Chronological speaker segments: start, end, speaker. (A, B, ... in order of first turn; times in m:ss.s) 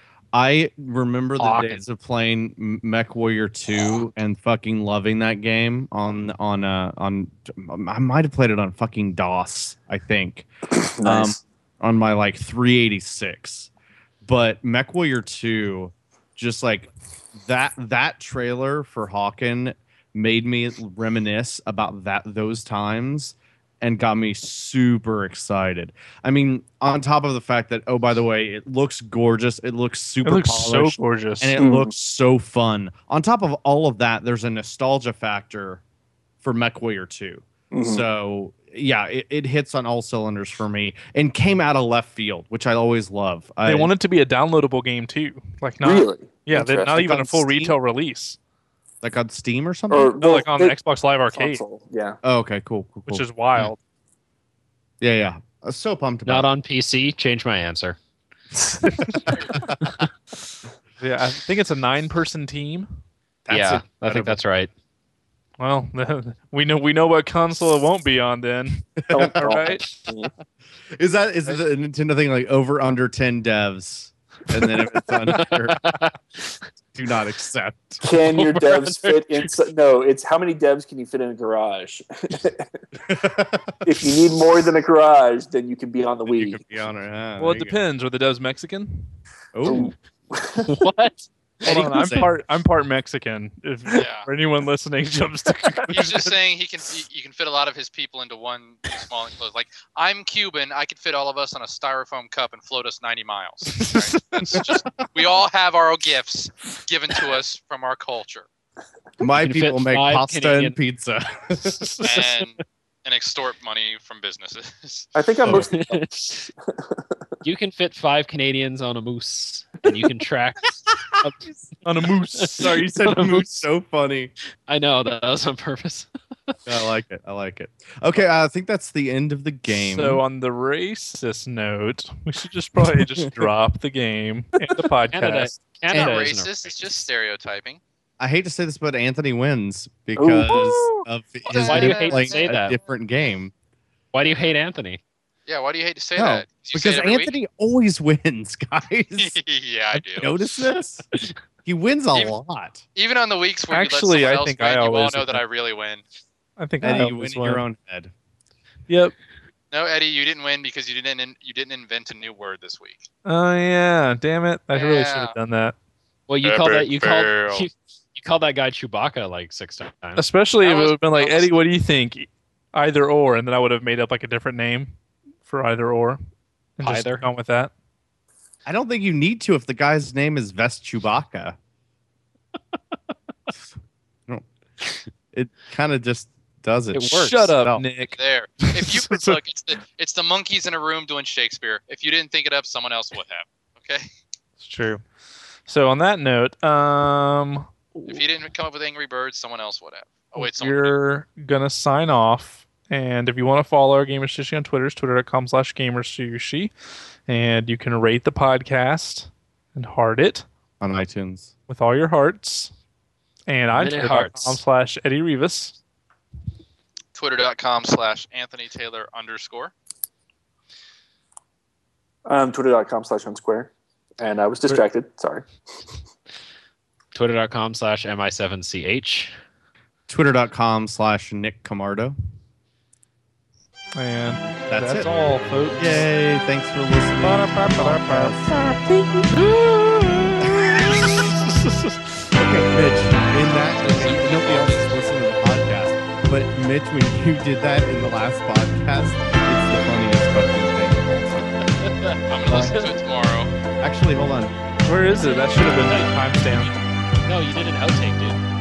0:00.3-0:10.5 A
0:01.4-0:01.8 B
0:10.8-0:11.4 C
0:11.0-0:13.7 A
0:14.2-0:35.8 A
0:30.2-0:31.6 D
0:31.6-0:31.9 C
0:36.4-0:43.9 A
0:37.7-0:38.0 C
0:43.6-0:48.4 D
0:45.8-0:47.0 C
0:46.9-0:47.8 A
0:49.0-0:50.1 A
0:49.9-0:50.8 C
0:50.1-0:51.6 D
0:51.3-0:52.2 C
0:52.2-0:53.7 A
0:53.1-0:53.8 D
0:55.0-0:56.5 A
0:56.2-0:58.0 B
0:58.9-0:59.3 D
1:01.0-1:02.9 D
1:03.5-1:04.4 A
1:03.5-1:04.7 B
1:05.6-1:10.0 D
1:09.0-1:09.5 A
1:09.1-1:10.3 C
1:11.0-1:15.9 A
1:15.2-1:16.5 B
1:16.9-1:18.0 A
1:18.0-1:22.8 C
1:18.3-1:19.5 B
1:23.0-1:24.2 A
1:23.8-1:26.6 C
1:26.3-1:27.8 A
1:27.4-1:29.1 D
1:29.5-1:29.9 A
1:29.6-1:30.7 C
1:30.6-1:31.3 B
1:31.6-1:32.3 A
1:31.6-1:36.4 D
1:33.9-1:34.3 E
1:35.9-1:48.5 E
1:43.7-1:44.7 D
1:44.4-1:44.7 A
1:49.2-1:52.1 A
1:49.4-1:50.8 B
1:51.7-1:52.2 D
1:52.0-1:55.1 E
1:55.2-1:57.2 C
1:55.5-1:56.5 B
1:57.4-2:01.4 B
2:01.8-2:03.0 D
2:02.4-2:03.5 B
2:02.6-2:04.3 A
2:04.7-2:06.6 B
2:06.7-2:10.2 A
2:09.8-2:16.0 D
2:13.0-2:13.5 A
2:15.1-2:17.1 B
2:15.9-2:17.8 E
2:18.2-2:23.5 A
2:20.2-2:21.0 C
2:21.5-2:22.5 E
2:21.6-2:22.8 B
2:24.1-2:25.0 B
2:24.2-2:24.6 E
2:25.5-2:27.3 E
2:26.2-2:29.4 A
2:29.2-2:30.4 E
2:29.9-2:31.1 A
2:31.6-2:32.8 A
2:33.0-2:36.0 E
2:33.7-2:35.4 D
2:36.6-2:37.6 D
2:36.8-2:38.1 A
2:38.9-2:39.1 D
2:39.7-2:43.1 E
2:43.2-2:45.8 D
2:44.7-2:45.3 E
2:46.3-2:50.2 B
2:46.4-2:47.7 E
2:50.2-2:56.2 D
2:50.6-2:51.5 E
2:56.8-2:57.7 D
2:56.8-2:57.2 B
2:58.7-3:01.6 A
3:05.3-3:07.8 A
3:07.0-3:09.4 D
3:08.2-3:14.1 E
3:14.6-3:15.0 D
3:15.7-3:18.2 D
3:18.1-3:21.0 E
3:20.4-3:26.7 D
3:27.3-3:30.4 D
3:30.8-3:31.5 A
3:31.7-3:32.7 D
3:33.5-3:35.8 D
3:33.8-3:34.6 B
3:37.2-3:39.7 E
3:42.3-3:45.4 C
3:47.1-3:49.3 B
3:50.1-3:52.2 A
3:54.0-3:56.1 D
3:54.7-3:55.1 A
3:55.8-3:58.6 A
3:57.2-4:02.4 D
4:00.4-4:01.0 A
4:02.3-4:11.7 A
4:03.8-4:04.8 E
4:03.8-4:04.6 B
4:11.8-4:12.9 B
4:12.3-4:13.5 E
4:12.5-4:12.8 A
4:13.8-4:14.5 A
4:14.8-4:16.7 D
4:15.2-4:16.6 B
4:17.2-4:18.4 B